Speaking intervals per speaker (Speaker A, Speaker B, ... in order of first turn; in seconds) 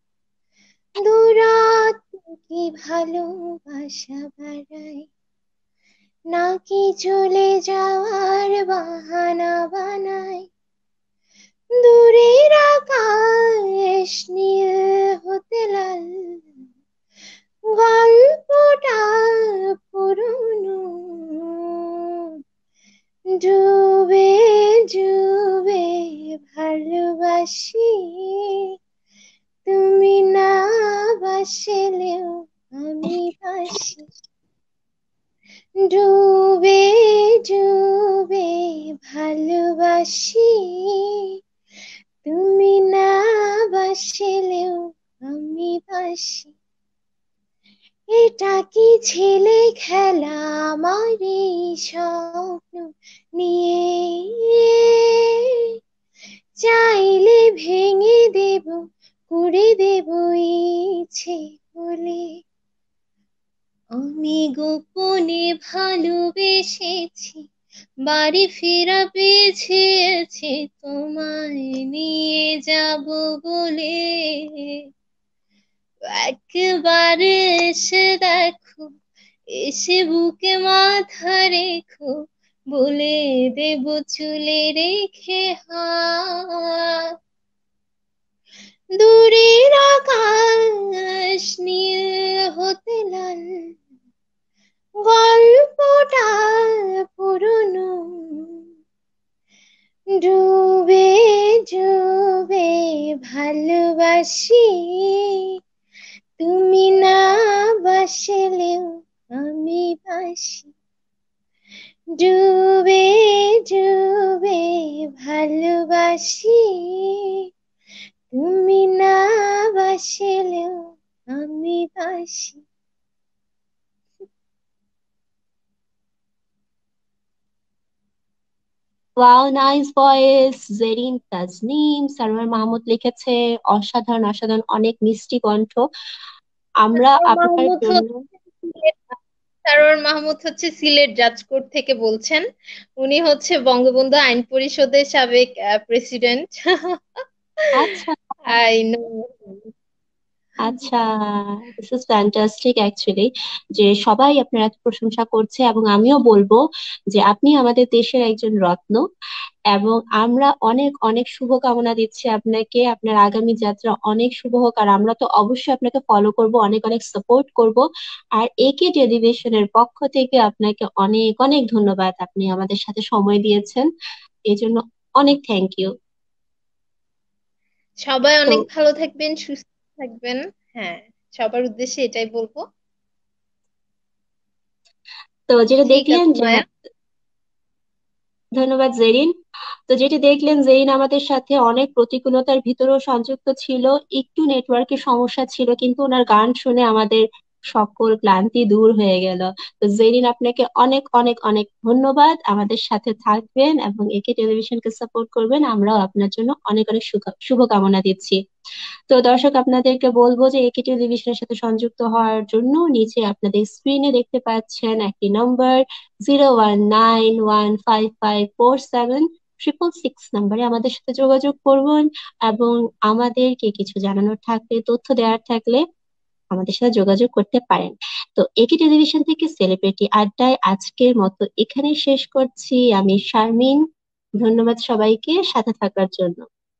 Speaker A: 1.0-5.1, 6.3-10.5, 11.8-16.4, 17.7-21.7, 23.4-28.6, 29.7-34.1, 35.9-41.0, 42.2-46.5, 48.1-52.9, 53.4-55.2, 56.6-62.3, 64.0-67.4, 68.1-74.7, 76.2-78.9, 79.5-82.1, 82.7-86.8, 89.0-93.6, 95.0-98.5, 100.2-105.2, 106.4-110.7, 112.2-117.2, 118.3-122.6, 137.0-138.0, 138.6-139.1, 139.7-142.4, 143.0-147.2, 148.5-149.7, 178.1-182.6, 185.9-186.6
Speaker B: 129.2-135.8, 136.8-138.2, 147.8-148.2, 150.6-151.1, 151.8-156.6, 157.1-159.0, 159.7-167.8, 168.4-173.8, 174.5-175.9, 185.5-186.6, 188.6-189.3, 189.9-208.4, 209.1-225.8, 226.5-233.8, 234.4-236.4